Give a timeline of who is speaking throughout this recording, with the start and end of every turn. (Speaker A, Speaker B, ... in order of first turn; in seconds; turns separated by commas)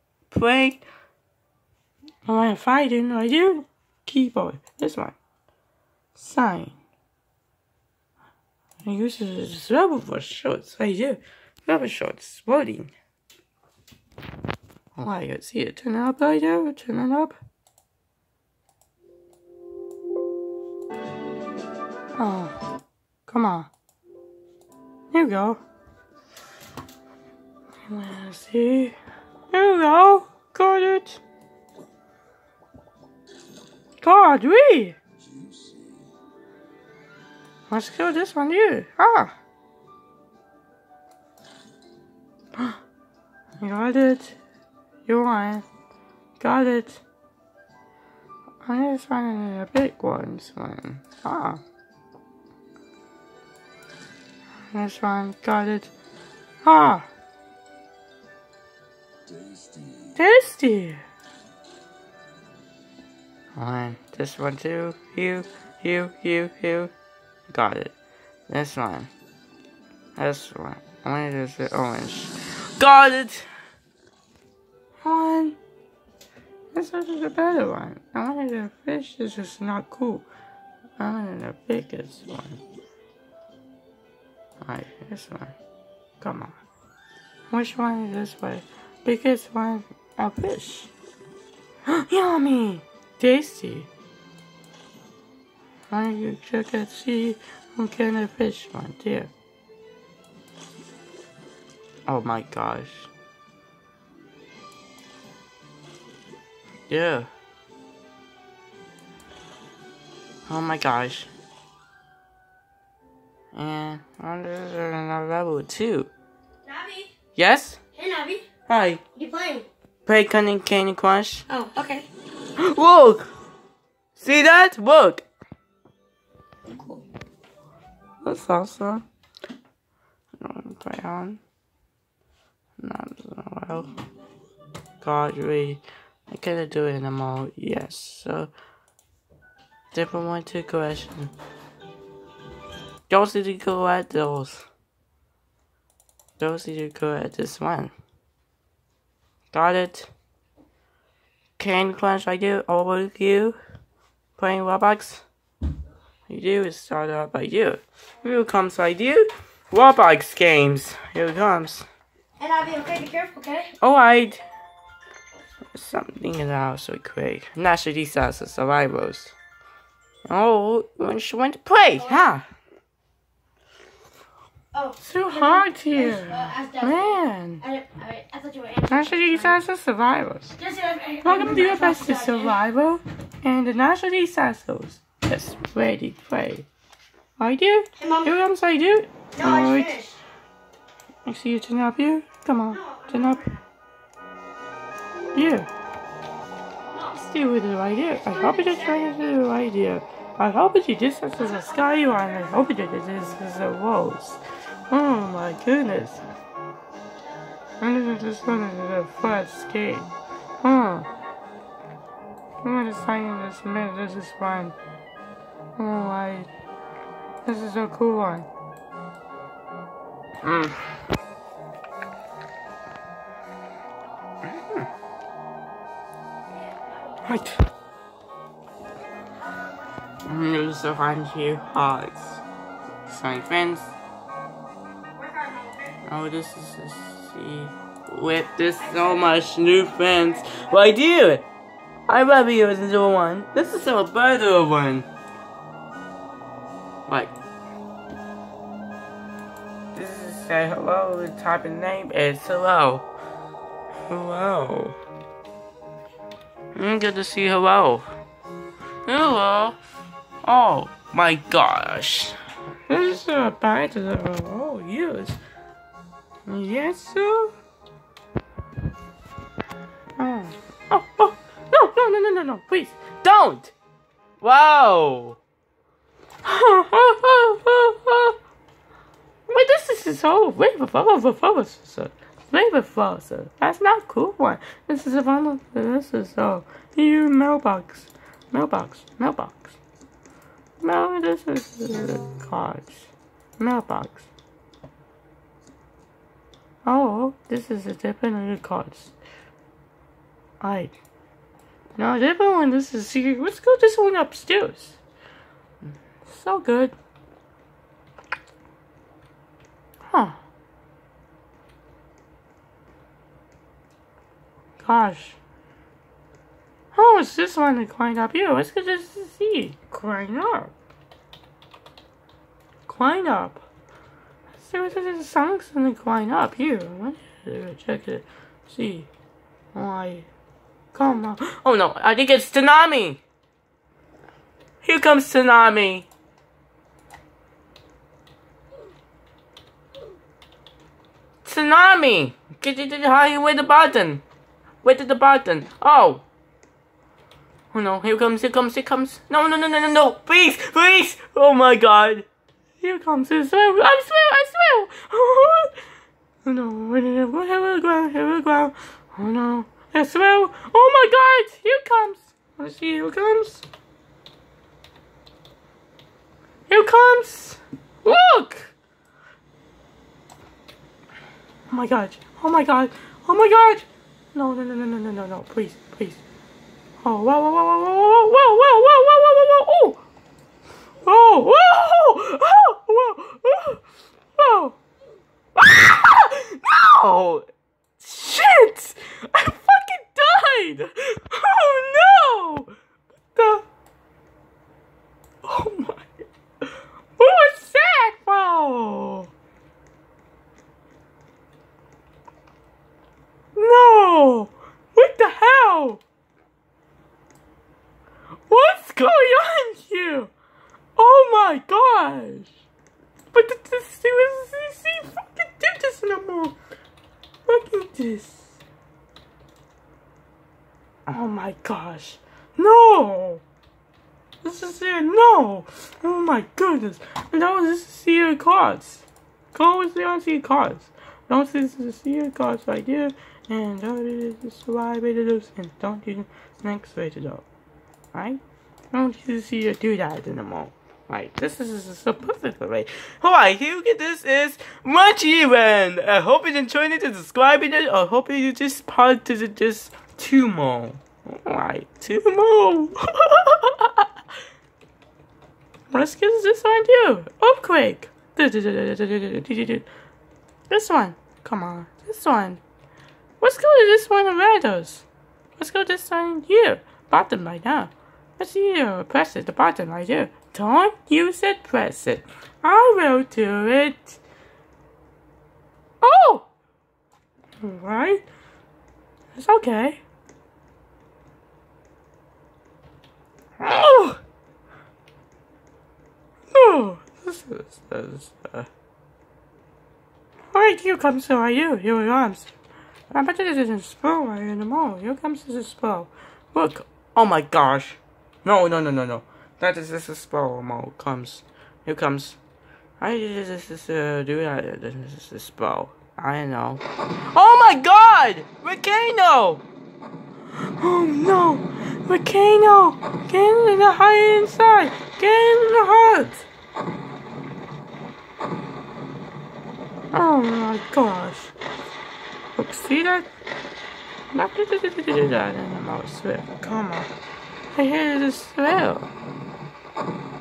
Speaker A: 0.3-0.8, Speaker A: 2.2-5.2, Speaker A: 6.1-6.8, Speaker A: 8.8-12.9, Speaker A: 14.9-17.4, Speaker A: 22.2-22.5, Speaker A: 23.3-23.7, Speaker A: 25.1-25.6, Speaker A: 27.9-28.9, Speaker A: 29.5-31.2, Speaker A: 34.0-35.0, Speaker A: 37.7-39.3, Speaker A: 43.6-44.4, Speaker A: 45.0-45.6, Speaker A: 46.4-47.0, Speaker A: 48.6-51.6, Speaker A: 54.7-55.9, Speaker A: 56.6-57.1, Speaker A: 60.1-61.0, Speaker A: 63.5-66.9, Speaker A: 67.5-67.9, Speaker A: 68.5-69.1, Speaker A: 70.2-73.5, Speaker A: 75.0-75.6, Speaker A: 76.7-80.3, Speaker A: 81.0-82.6, Speaker A: 84.6-85.5, Speaker A: 86.2-86.5, Speaker A: 87.5-90.9, Speaker A: 91.9-93.9, Speaker A: 95.9-99.3, Speaker A: 102.0-103.1, Speaker A: 106.9-107.3, Speaker A: 110.5-111.3, Speaker A: 113.5-116.1, Speaker B: 116.6-117.1, Speaker A: 117.3-117.8, Speaker B: 117.9-118.5, Speaker A: 118.7-119.0, Speaker B: 119.1-119.7, Speaker A: 120.0-121.5, Speaker B: 121.5-122.1, Speaker A: 122.6-123.3, Speaker A: 124.2-125.2, Speaker B: 126.7-127.0, Speaker A: 128.2-129.0, Speaker A: 130.4-131.4, Speaker A: 132.8-133.9, Speaker A: 135.0-138.5, Speaker A: 139.9-141.3, Speaker A: 143.1-144.7, Speaker A: 146.4-147.9, Speaker A: 149.5-150.1, Speaker A: 151.6-153.6, Speaker A: 154.4-155.2, Speaker A: 156.3-161.8, Speaker B: 162.4-163.7, Speaker A: 163.8-164.4, Speaker A: 165.7-169.3, Speaker A: 170.2-172.4, Speaker B: 172.0-172.2, Speaker B: 174.7-179.6, Speaker A: 175.0-177.6, Speaker A: 178.9-180.6, Speaker B: 180.6-182.6, Speaker A: 181.2-186.7, Speaker A: 187.4-189.9, Speaker B: 188.0-188.3, Speaker B: 189.3-190.2, Speaker A: 191.2-193.5, Speaker B: 192.7-193.6, Speaker A: 195.3-195.7, Speaker A: 197.1-206.2, Speaker B: 198.1-199.1, Speaker A: 207.8-210.1, Speaker A: 210.6-211.1, Speaker A: 212.6-214.8, Speaker A: 215.8-216.5, Speaker A: 217.4-218.5, Speaker A: 220.4-220.9, Speaker A: 224.5-224.8, Speaker A: 227.2-227.6, Speaker A: 230.2-232.4, Speaker A: 233.1-233.9, Speaker B: 235.1-236.0, Speaker A: 236.0-241.5, Speaker B: 238.9-239.2, Speaker B: 240.2-240.7, Speaker A: 242.1-245.1, Speaker A: 247.1-247.3, Speaker A: 249.9-253.1, Speaker A: 254.1-254.9, Speaker A: 256.7-258.1, Speaker A: 259.1-259.8, Speaker A: 260.4-262.4, Speaker A: 262.9-265.4, Speaker A: 266.4-267.5, Speaker A: 270.2-273.7, Speaker A: 274.4-275.4, Speaker A: 276.4-278.4, Speaker A: 279.5-289.8, Speaker A: 290.8-294.3, Speaker A: 296.8-299.1, Speaker A: 300.6-300.9, Speaker A: 301.9-305.0, Speaker A: 306.2-306.9, Speaker A: 310.1-310.4, Speaker A: 314.8-315.4, Speaker A: 316.9-320.7, Speaker A: 322.9-323.6, Speaker A: 324.6-329.1, Speaker A: 329.7-330.3, Speaker A: 330.9-333.2, Speaker A: 334.8-336.1, Speaker A: 341.4-344.2, Speaker A: 344.8-346.2, Speaker A: 347.7-352.2, Speaker A: 352.8-355.7, Speaker A: 356.4-363.6, Speaker A: 366.7-368.7, Speaker A: 371.7-376.2, Speaker A: 377.0-380.0, Speaker A: 381.0-383.8, Speaker A: 384.4-384.8, Speaker A: 385.5-387.5, Speaker A: 388.0-392.7, Speaker A: 393.3-393.6, Speaker A: 395.4-396.2, Speaker A: 397.2-399.3, Speaker A: 403.6-406.0, Speaker A: 408.5-410.3, Speaker A: 411.0-412.5, Speaker A: 413.3-416.5, Speaker A: 417.5-418.6, Speaker A: 421.1-423.4, Speaker A: 424.4-437.4, Speaker A: 438.1-438.4, Speaker A: 438.9-454.1, Speaker A: 455.9-459.9, Speaker A: 460.7-462.6, Speaker A: 463.4-465.1, Speaker A: 465.6-474.2, Speaker A: 476.0-476.5, Speaker A: 477.6-478.3, Speaker A: 479.3-480.0, Speaker A: 483.6-484.2, Speaker A: 486.5-488.7, Speaker A: 490.5-492.5, Speaker A: 493.1-502.4, Speaker A: 503.0-509.6, Speaker A: 510.6-516.5, Speaker A: 520.1-521.5, Speaker A: 522.5-523.3, Speaker A: 524.3-527.1, Speaker A: 527.7-529.1